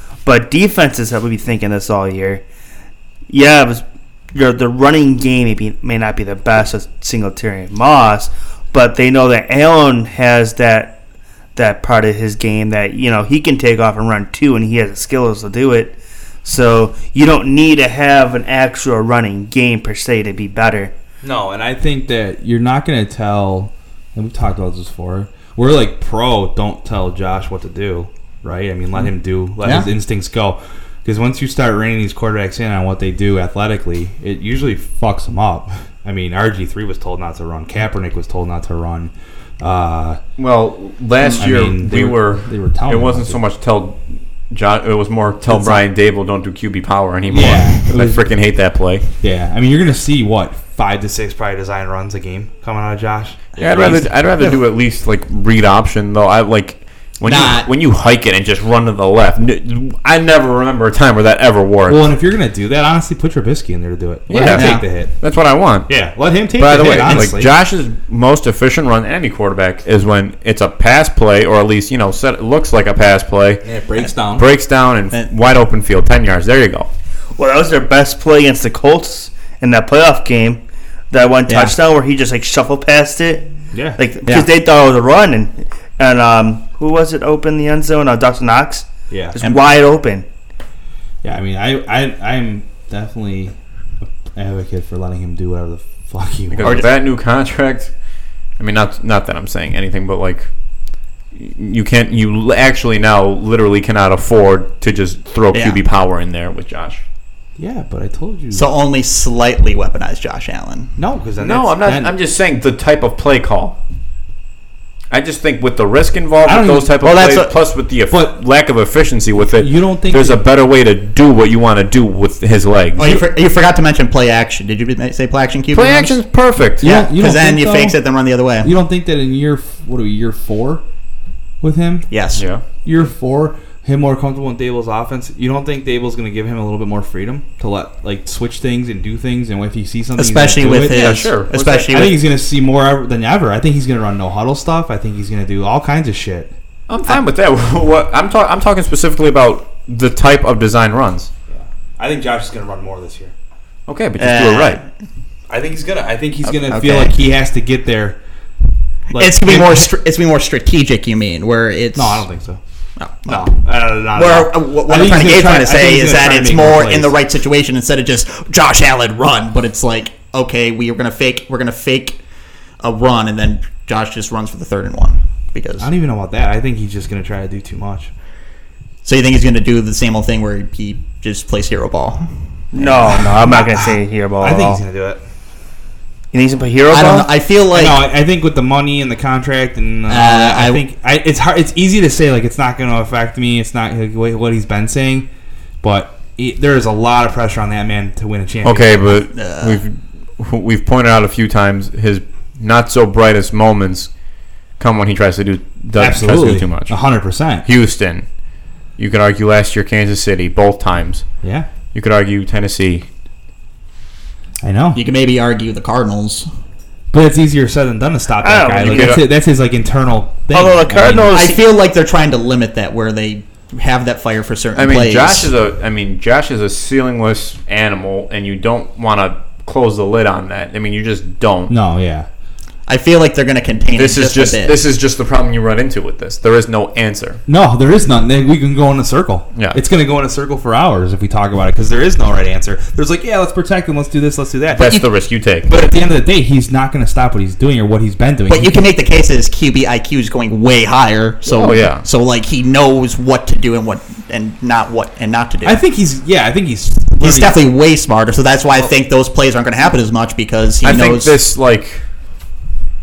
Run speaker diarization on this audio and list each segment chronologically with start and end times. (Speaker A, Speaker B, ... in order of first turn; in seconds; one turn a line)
Speaker A: 0.2-2.4
Speaker A: 3.3-11.0
Speaker A: 11.6-20.9
Speaker B: 21.2-40.2
Speaker C: 29.6-29.9
Speaker D: 40.4-49.1
Speaker C: 41.2-41.5
Speaker B: 41.4-43.4
Speaker C: 45.5-45.8
Speaker B: 47.3-48.2
Speaker B: 49.2-54.1
Speaker D: 53.6-62.1
Speaker C: 53.7-54.6
Speaker C: 57.2-57.7
Speaker B: 61.9-65.2
Speaker D: 64.3-66.0
Speaker C: 64.5-64.9
Speaker B: 65.9-67.5
Speaker D: 66.5-73.7
Speaker B: 73.6-74.5
Speaker D: 74.2-76.9
Speaker A: 77.4-90.3
Speaker C: 81.5-81.8
Speaker B: 83.7-84.0
Speaker B: 89.1-89.4
Speaker C: 89.4-89.8
Speaker B: 91.2-96.9
Speaker D: 96.5-97.9
Speaker D: 98.6-100.5
Speaker D: 101.3-107.0
Speaker C: 105.5-105.8
Speaker B: 107.6-108.7
Speaker C: 108.5-111.0
Speaker B: 111.0-112.1
Speaker D: 111.4-113.8
Speaker D: 115.1-123.2
Speaker B: 116.5-116.9
Speaker C: 117.0-117.5
Speaker B: 118.1-118.4
Speaker B: 119.6-120.5
Speaker C: 123.0-126.2
Speaker D: 125.7-127.0
Speaker B: 126.8-128.0
Speaker C: 126.8-128.7
Speaker B: 128.6-130.8
Speaker B: 131.6-132.1
Speaker C: 132.1-132.4
Speaker D: 132.3-132.6
Speaker B: 132.8-141.3
Speaker C: 140.2-142.3
Speaker D: 140.7-141.9
Speaker B: 141.9-146.5
Speaker D: 146.9-151.3
Speaker B: 151.5-153.3
Speaker D: 153.9-154.8
Speaker C: 154.2-154.9
Speaker B: 155.5-158.2
Speaker C: 156.4-157.2
Speaker B: 159.1-159.9
Speaker C: 159.1-162.3
Speaker B: 161.9-162.6
Speaker C: 163.0-163.6
Speaker B: 163.3-167.2
Speaker C: 164.1-172.2
Speaker C: 172.8-175.9
Speaker B: 175.8-178.1
Speaker C: 179.0-183.4
Speaker A: 182.7-184.8
Speaker B: 183.4-185.2
Speaker A: 186.3-187.3
Speaker C: 186.9-188.1
Speaker B: 187.7-195.3
Speaker C: 190.1-190.8
Speaker B: 195.8-198.9
Speaker D: 198.6-204.1
Speaker C: 199.3-199.8
Speaker D: 204.8-207.0
Speaker B: 206.0-207.7
Speaker D: 207.6-208.3
Speaker D: 209.0-211.4
Speaker B: 211.4-211.7
Speaker D: 211.9-213.1
Speaker B: 214.6-215.0
Speaker C: 214.9-216.5
Speaker B: 217.1-221.4
Speaker A: 218.4-219.2
Speaker D: 218.8-219.3
Speaker A: 220.5-221.6
Speaker C: 221.3-225.5
Speaker D: 224.8-231.7
Speaker B: 231.7-232.3
Speaker C: 232.9-234.8
Speaker D: 233.9-237.4
Speaker B: 237.5-245.1
Speaker D: 239.6-239.8
Speaker D: 244.7-245.7
Speaker B: 245.7-248.8
Speaker C: 248.5-255.8
Speaker D: 251.5-252.1
Speaker B: 255.6-257.6
Speaker C: 257.2-261.4
Speaker D: 260.8-262.0